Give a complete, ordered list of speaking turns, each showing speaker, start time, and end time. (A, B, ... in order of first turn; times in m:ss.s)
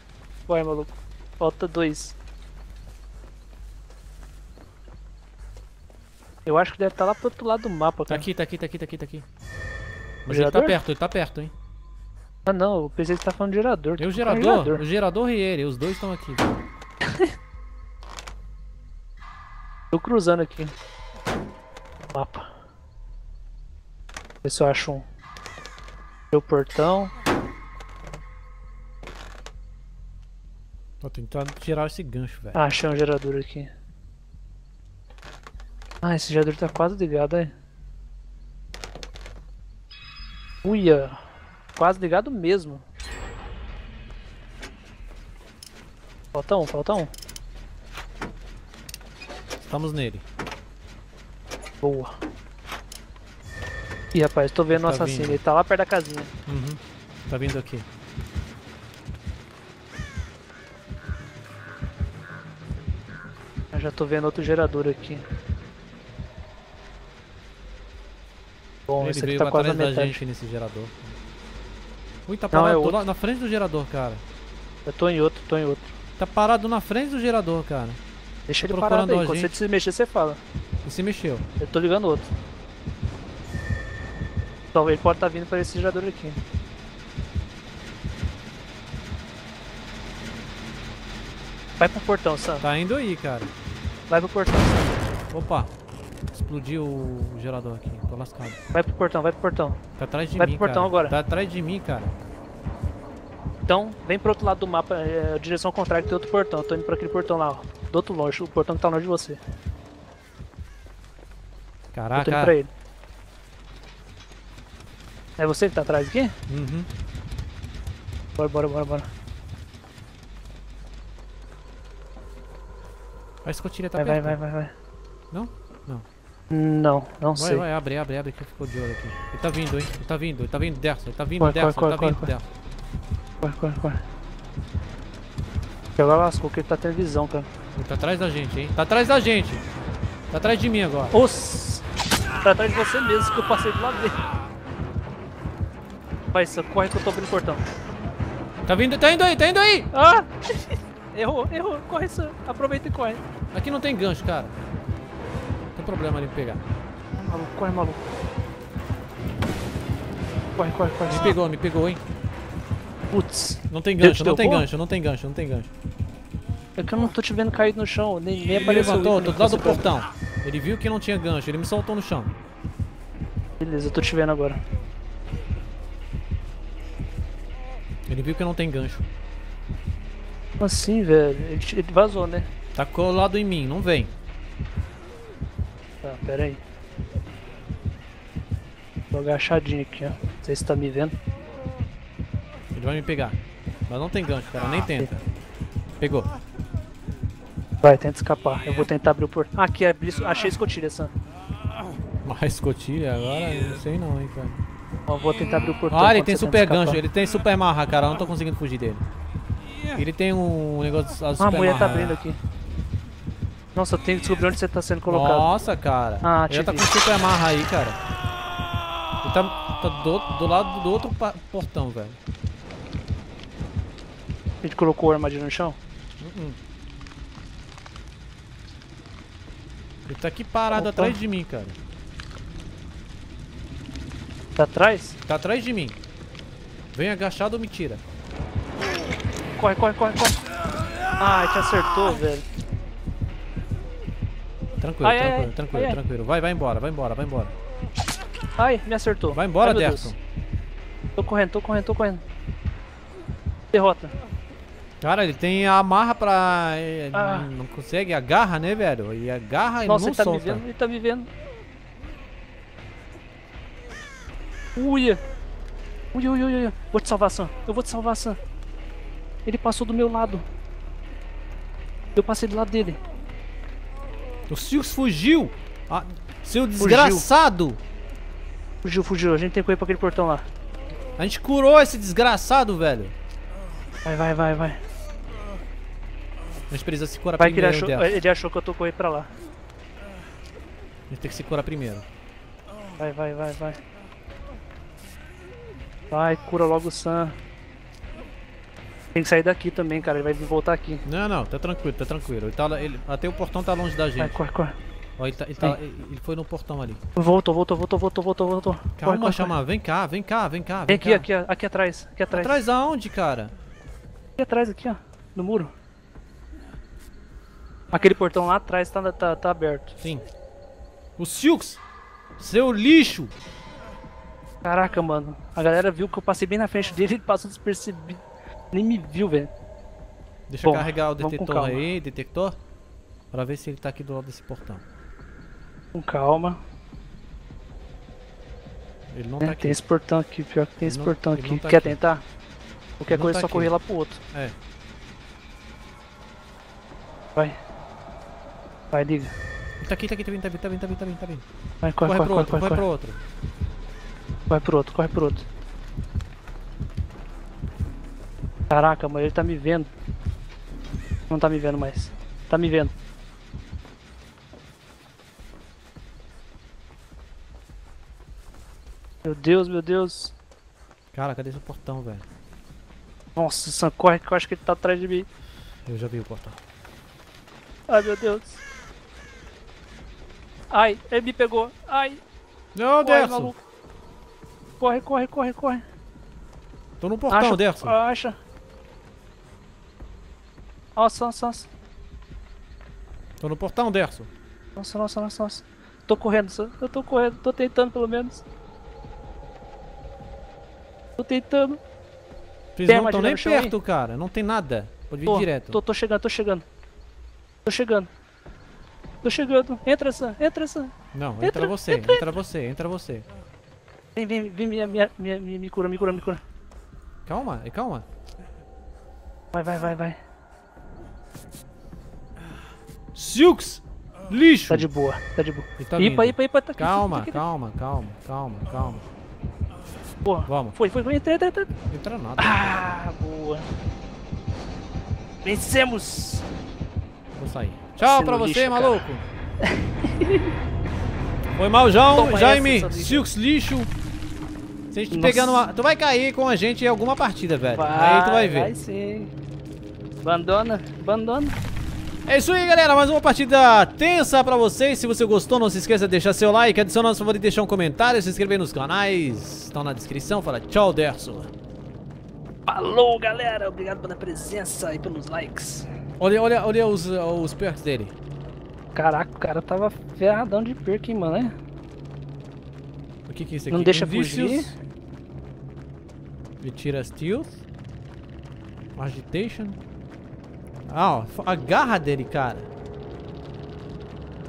0:00.5-0:02.2 A
0:06.4-0:08.2 A
0:08.1-0:09.2 B
0:10.2-0:11.5 B
0:10.3-0:10.8 A
0:12.4-0:14.8 A
0:14.0-0:16.5 B
0:19.9-0:20.7 A
0:22.1-0:22.5 A
0:24.4-0:25.0 A
0:26.3-0:27.1 A
0:31.0-0:32.6 B
0:32.5-0:33.7 A
0:36.0-0:37.5 A
0:40.6-0:41.2 A
0:41.8-0:42.8 A
0:46.3-0:47.1 A
0:49.6-0:50.2 B
0:51.8-0:52.1 A
0:54.1-0:56.3 A
0:54.7-0:55.4 B
0:56.5-0:57.8 B
1:03.7-1:05.2 A
1:08.9-1:10.2 A
1:09.0-1:11.1 B
1:12.3-1:14.2 B
1:12.5-1:13.0 A
1:14.8-1:15.9 A
1:16.2-1:18.0 B
1:18.5-1:20.4 A
1:18.6-1:19.5 B
1:20.8-1:21.4 B
1:21.6-1:22.3 A
1:24.7-1:26.4 A
1:31.8-1:32.7 A
1:32.6-1:33.5 B
1:34.1-1:35.0 A
1:35.3-1:35.7 B
1:36.3-1:38.6 B
1:38.7-1:39.8 A
1:40.0-1:42.1 B
1:40.4-1:41.2 A
1:43.6-1:49.4 A
1:51.9-1:52.5 B
1:52.1-1:52.7 A
1:55.4-1:56.3 A
1:56.5-1:56.9 B
1:58.4-1:59.1 A
2:03.4-2:04.4 B
2:04.0-2:04.7 A
2:05.3-2:06.0 B
2:06.5-2:07.6 A
2:07.4-2:12.4 B
2:11.4-2:12.3 A
2:13.4-2:14.0 A
2:16.0-2:17.5 A
2:17.7-2:19.6 B
2:20.3-2:21.1 B
2:21.1-2:21.8 A
2:22.4-2:24.2 A
2:26.3-2:27.6 A
2:28.6-2:29.9 B
2:29.9-2:33.2 A
2:33.5-2:34.5 B
2:35.7-2:36.6 B
2:37.2-2:38.1 A
2:40.6-2:41.3 A
2:41.0-2:42.0 B
2:43.1-2:44.7 A
2:43.7-2:45.7 B
2:46.8-2:49.9 A
2:48.4-2:52.3 B
2:53.6-2:54.6 A
2:58.1-2:59.0 B
3:00.6-3:02.5 A
3:02.7-3:04.1 B
3:06.0-3:06.6 A
3:09.1-3:11.1 A
3:12.7-3:15.2 B
3:16.0-3:16.3 B
3:17.8-3:21.1 A
3:22.2-3:24.6 B
3:25.1-3:27.0 A
3:25.9-3:29.0 B
3:29.9-3:32.2 B
3:31.4-3:32.4 A
3:33.7-3:35.5 A
3:35.1-3:38.0 B
3:36.2-3:36.9 A
3:39.2-3:42.2 B
3:44.6-3:45.8 A
3:46.2-3:46.6 B
3:50.0-3:51.8 B
3:50.7-3:51.2 A
3:54.6-3:55.2 A
3:55.3-3:56.0 B
3:56.9-3:58.0 B
3:59.6-4:00.4 A
4:01.2-4:02.4 A
4:04.8-4:07.5 B
4:05.0-4:06.0 A
4:08.6-4:10.1 A
4:09.3-4:10.2 B
4:11.2-4:12.2 A
4:13.7-4:14.1 A
4:15.0-4:20.6 B
4:17.1-4:17.5 A
4:19.8-4:21.3 A
4:24.7-4:25.2 A
4:26.1-4:28.4 A
4:29.4-4:30.4 A
4:32.1-4:33.0 A
4:34.5-4:37.8 B
4:36.8-4:37.3 A
4:38.8-4:40.4 A
4:41.2-4:43.1 B
4:44.0-4:44.8 A
4:46.7-4:48.1 B
4:47.4-4:49.3 A
4:51.1-4:52.0 B
4:53.0-4:53.8 A
4:56.1-4:57.4 A
4:59.1-5:01.0 A
5:01.0-5:04.4 B
5:04.2-5:04.8 A
5:05.2-5:07.0 B
5:07.2-5:09.6 A
5:09.0-5:11.3 B
5:10.9-5:12.5 A
5:12.3-5:13.5 B
5:14.4-5:15.7 A
5:17.9-5:19.9 A
5:20.0-5:20.3 B
5:21.2-5:21.8 B
5:22.4-5:23.3 B
5:24.6-5:29.5 A
5:30.5-5:32.6 B
5:30.6-5:31.8 A
5:33.3-5:34.8 B
5:35.9-5:36.6 A
5:39.1-5:39.8 B
5:39.4-5:42.2 A
5:40.8-5:42.0 B
5:43.0-5:44.2 A
5:43.1-5:43.7 B
5:48.9-5:49.3 A
5:49.8-5:51.4 B
5:51.8-5:52.8 A
5:52.0-5:53.2 B
5:54.5-5:55.4 A
5:58.7-5:59.9 A
6:01.3-6:02.9 A
6:09.2-6:10.3 A
6:11.1-6:12.2 B
6:13.4-6:15.3 A
6:15.9-6:16.6 B
6:17.9-6:18.6 A
6:20.7-6:22.2 A
6:22.7-6:23.5 B
6:23.0-6:23.6 A
6:24.8-6:25.8 A
6:27.0-6:27.9 B
6:27.3-6:28.4 A
6:31.0-6:31.7 A
6:33.4-6:34.3 B
6:34.8-6:38.4 A
6:41.2-6:41.8 A
6:42.8-6:45.8 B
6:42.8-6:43.7 A
6:45.2-6:46.6 A
6:47.6-6:48.1 A
6:49.2-6:52.2 A
6:51.1-6:53.2 B
6:54.1-6:56.4 A
6:57.2-6:58.0 B
6:59.5-7:00.2 A
7:03.1-7:04.9 B
7:04.7-7:07.4 A
7:05.8-7:09.0 B
7:10.2-7:11.7 A
7:10.5-7:10.8 B
7:11.9-7:13.0 B
7:12.4-7:13.7 A
7:15.4-7:16.4 A
7:17.3-7:19.2 B
7:18.0-7:19.0 A
7:19.6-7:20.5 A
7:21.5-7:23.9 B
7:22.1-7:23.3 A
7:24.9-7:28.7 B
7:25.1-7:25.6 A
7:27.7-7:29.3 A
7:30.2-7:31.6 A
7:32.2-7:41.5 B
7:42.7-7:45.9 A
7:46.2-7:48.1 B
7:48.9-7:51.5 A
7:53.3-7:54.7 B
7:53.7-7:54.8 A
7:56.6-7:57.6 B
7:59.0-7:59.8 B
8:00.9-8:02.7 B